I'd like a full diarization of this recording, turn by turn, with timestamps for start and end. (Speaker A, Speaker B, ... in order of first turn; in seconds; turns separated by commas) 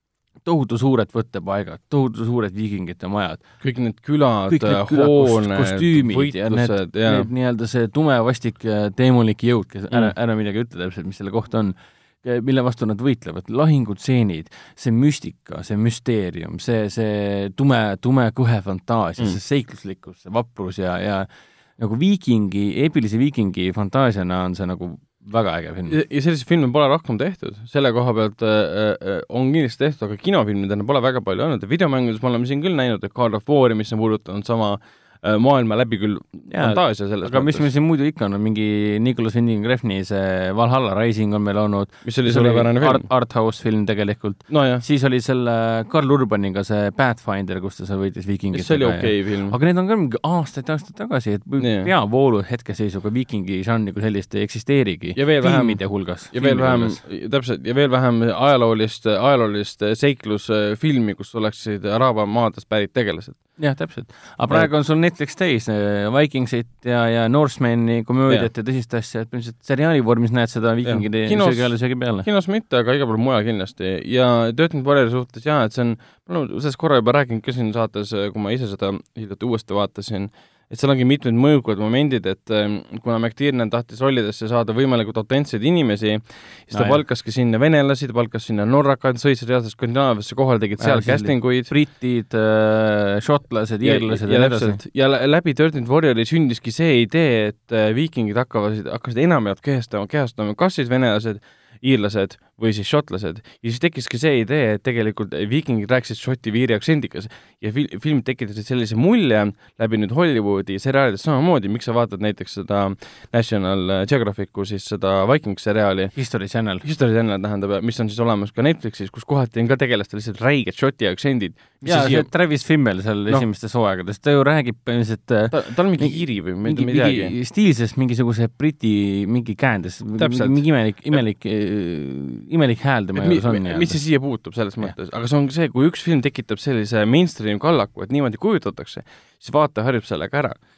Speaker A: 0.4-3.4, Speaker B: 3.6-7.3, Speaker A: 4.5-26.0, Speaker B: 25.9-37.7, Speaker A: 36.5-57.0, Speaker B: 42.0-43.1, Speaker B: 44.5-44.8, Speaker B: 48.5-49.5, Speaker B: 51.6-51.9, Speaker B: 55.1-63.4, Speaker A: 63.6-72.3, Speaker B: 70.8-91.7, Speaker A: 86.7-87.0, Speaker A: 90.8-94.8, Speaker B: 93.8-116.1, Speaker A: 116.1-116.8, Speaker B: 116.8-122.3, Speaker A: 121.8-133.9, Speaker B: 125.5-127.3, Speaker B: 130.2-131.2, Speaker B: 133.2-140.6